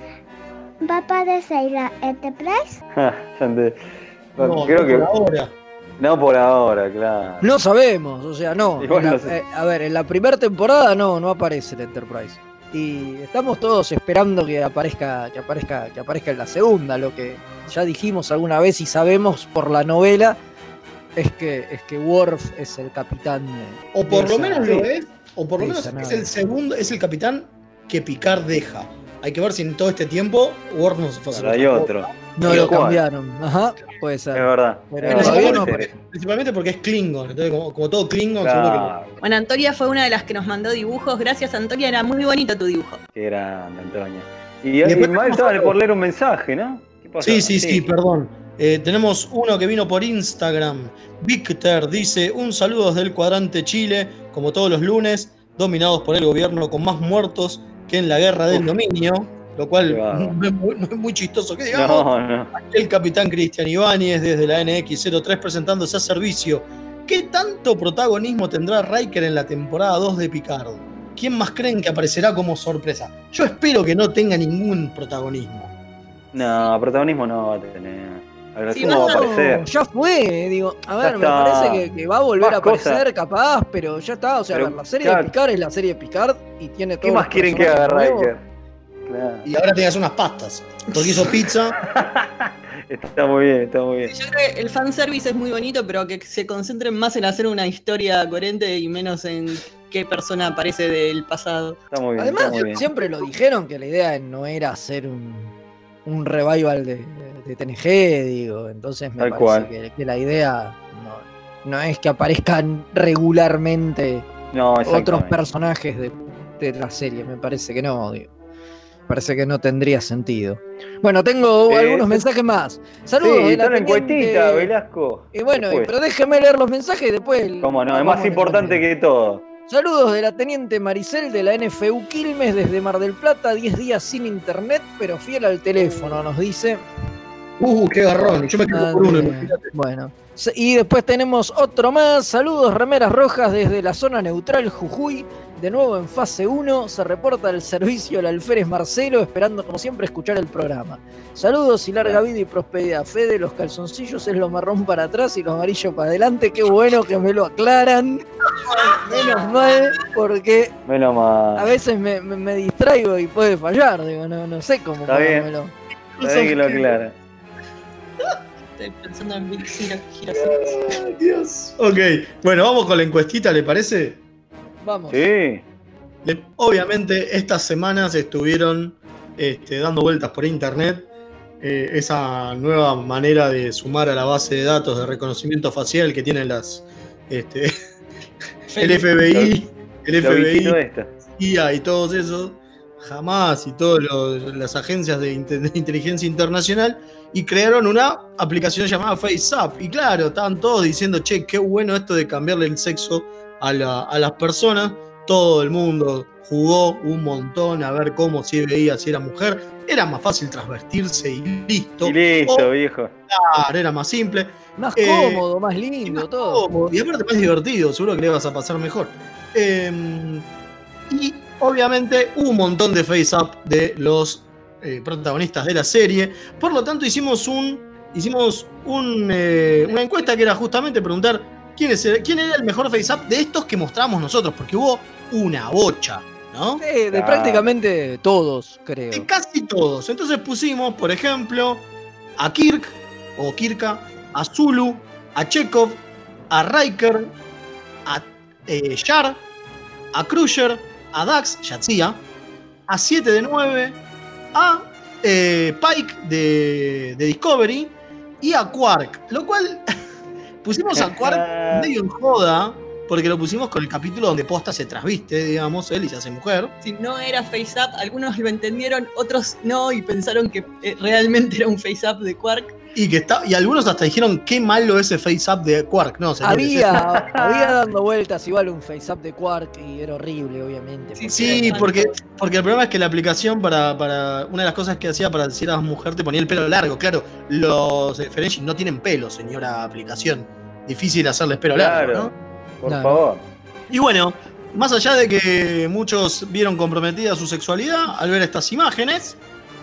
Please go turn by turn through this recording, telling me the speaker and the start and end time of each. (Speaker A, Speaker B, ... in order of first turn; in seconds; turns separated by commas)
Speaker A: 0.8-2.8, Speaker B: 2.9-3.8, Speaker B: 4.3-5.1, Speaker C: 4.4-5.5, Speaker B: 6.0-7.5, Speaker D: 7.4-20.4, Speaker B: 8.8-9.3, Speaker D: 21.1-24.9, Speaker C: 23.9-32.8, Speaker D: 25.6-26.3, Speaker B: 31.3-33.0, Speaker D: 32.4-35.8, Speaker B: 34.3-35.9, Speaker C: 35.0-38.9, Speaker B: 38.4-39.2, Speaker E: 39.2-43.0, Speaker B: 43.1-47.9, Speaker C: 44.8-45.7, Speaker C: 47.2-75.7, Speaker B: 59.9-60.3, Speaker B: 61.7-62.5, Speaker B: 76.3-79.7, Speaker E: 76.4-76.7, Speaker E: 78.7-79.3, Speaker D: 78.8-88.3, Speaker B: 81.0-81.9, Speaker B: 82.4-83.0, Speaker B: 84.5-85.3, Speaker B: 87.0-88.4, Speaker B: 89.0-89.5, Speaker C: 89.4-91.8, Speaker B: 91.8-94.1, Speaker E: 94.1-101.8, Speaker B: 101.9-102.8, Speaker D: 102.2-105.5, Speaker D: 106.0-114.3, Speaker B: 109.2-109.7, Speaker B: 114.5-115.4, Speaker D: 114.8-118.3, Speaker D: 119.1-124.7, Speaker B: 121.7-122.2, Speaker B: 123.2-125.9, Speaker D: 125.3-128.8, Speaker B: 127.6-129.4, Speaker D: 129.7-136.8, Speaker C: 137.6-139.7, Speaker D: 138.2-158.2, Speaker E: 158.9-159.3, Speaker D: 159.0-160.7, Speaker B: 160.8-161.7, Speaker D: 161.6-165.7, Speaker B: 165.1-165.5, Speaker C: 166.1-166.9, Speaker B: 166.2-167.1, Speaker E: 168.8-171.0, Speaker C: 170.3-174.2, Speaker D: 174.8-175.2, Speaker B: 175.1-175.6, Speaker C: 176.2-181.1, Speaker C: 181.6-187.7, Speaker C: 188.7-190.8, Speaker B: 189.2-189.5, Speaker B: 190.2-191.1, Speaker C: 191.3-212.7, Speaker B: 212.0-213.1, Speaker C: 213.3-215.4, Speaker D: 214.8-216.6, Speaker C: 216.1-220.5, Speaker C: 221.1-236.8, Speaker E: 229.8-230.3, Speaker D: 236.8-239.2, Speaker B: 237.1-237.7, Speaker C: 239.1-241.9, Speaker C: 242.4-247.3, Speaker C: 248.0-249.4, Speaker C: 250.1-252.2, Speaker C: 252.9-254.0, Speaker C: 254.5-259.9, Speaker C: 260.6-266.7, Speaker B: 260.9-261.9, Speaker E: 266.8-272.8, Speaker C: 272.9-277.0, Speaker D: 276.4-281.8, Speaker B: 276.9-277.8, Speaker E: 281.1-282.1, Speaker C: 281.3-292.3, Speaker B: 291.7-293.4, Speaker D: 292.9-293.2, Speaker C: 293.9-299.4